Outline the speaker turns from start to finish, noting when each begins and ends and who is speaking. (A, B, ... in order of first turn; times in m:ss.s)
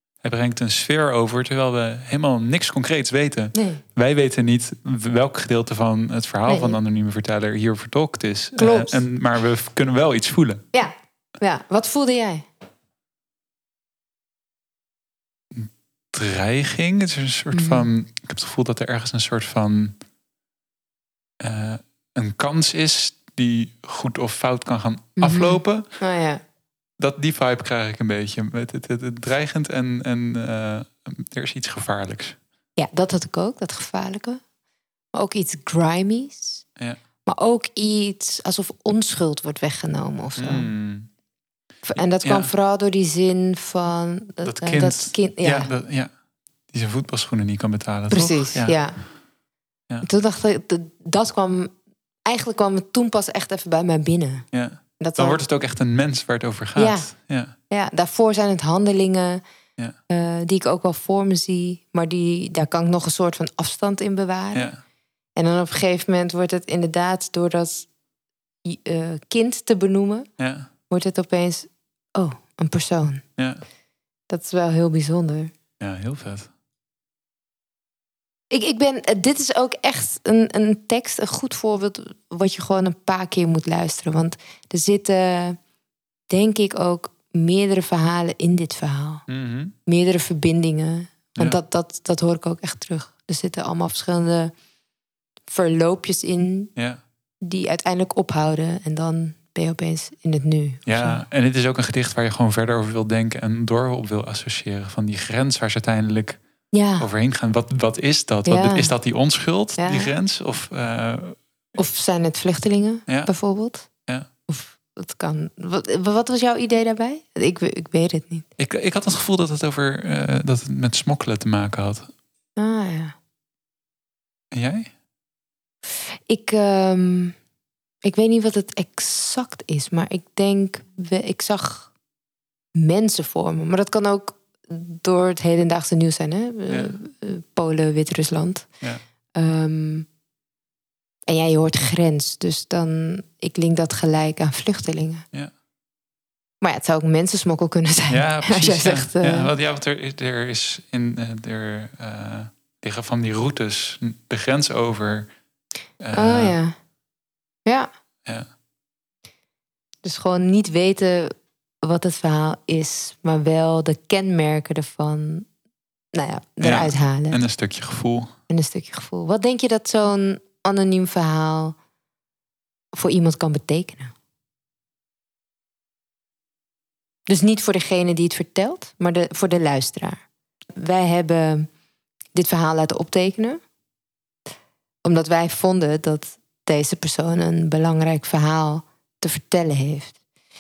0:00.2-0:10.6 A
0:03.5-0:03.8 B
0:06.5-0:06.8 B
0:08.6-0:09.0 B
0:10.7-0:12.5 B
0:15.5-0:20.0 A
0:17.5-0:17.9 B
0:21.4-0:25.9 A
0:25.2-0:26.4 B
0:27.0-0:32.4 A
0:32.8-0:34.4 B
0:35.1-0:36.6 B
0:37.3-0:40.7 B
0:40.4-0:41.1 A
0:41.8-0:45.7 B
0:42.2-0:42.5 A
0:44.4-0:46.1 A
0:46.7-0:48.8 A
0:48.1-0:49.0 B
0:50.0-0:51.7 B
0:52.3-0:54.5 B
0:54.5-0:57.5 A
0:55.0-0:55.4 B
0:56.8-0:57.1 B
0:57.7-0:59.4 B
1:00.1-1:04.7 B
1:05.4-1:07.9 B
1:08.6-1:10.3 B
1:10.4-1:10.7 A
1:10.9-1:13.2 B
1:13.4-1:13.6 A
1:14.3-1:15.5 B
1:15.8-1:16.5 A
1:18.5-1:25.6 B
1:26.3-1:29.2 B
1:29.3-1:29.7 A
1:29.9-1:34.5 B
1:35.5-1:36.7 B
1:37.4-1:41.2 B
1:40.9-1:46.4 A
1:46.7-1:47.1 B
1:47.0-1:51.4 A
1:48.5-1:48.9 B
1:49.8-1:50.1 B
1:51.8-1:53.9 B
1:53.1-1:53.3 A
1:54.5-1:58.5 B
1:58.6-2:02.1 A
2:02.6-2:03.2 B
2:04.5-2:04.9 A
2:06.3-2:07.4 B
2:08.0-2:11.9 B
2:12.8-2:18.7 B
2:19.4-2:20.1 B
2:21.3-2:25.2 B
2:26.6-2:29.5 B
2:28.1-2:35.3 A
2:36.0-2:36.6 A
2:36.1-2:36.8 B
2:40.0-2:45.5 B
2:46.1-2:47.4 B
2:46.6-2:48.3 A
2:48.5-2:51.8 B
2:53.0-2:54.1 B
2:57.3-3:00.2 B
3:00.8-3:01.7 B
3:02.4-3:03.6 B
3:05.0-3:10.2 B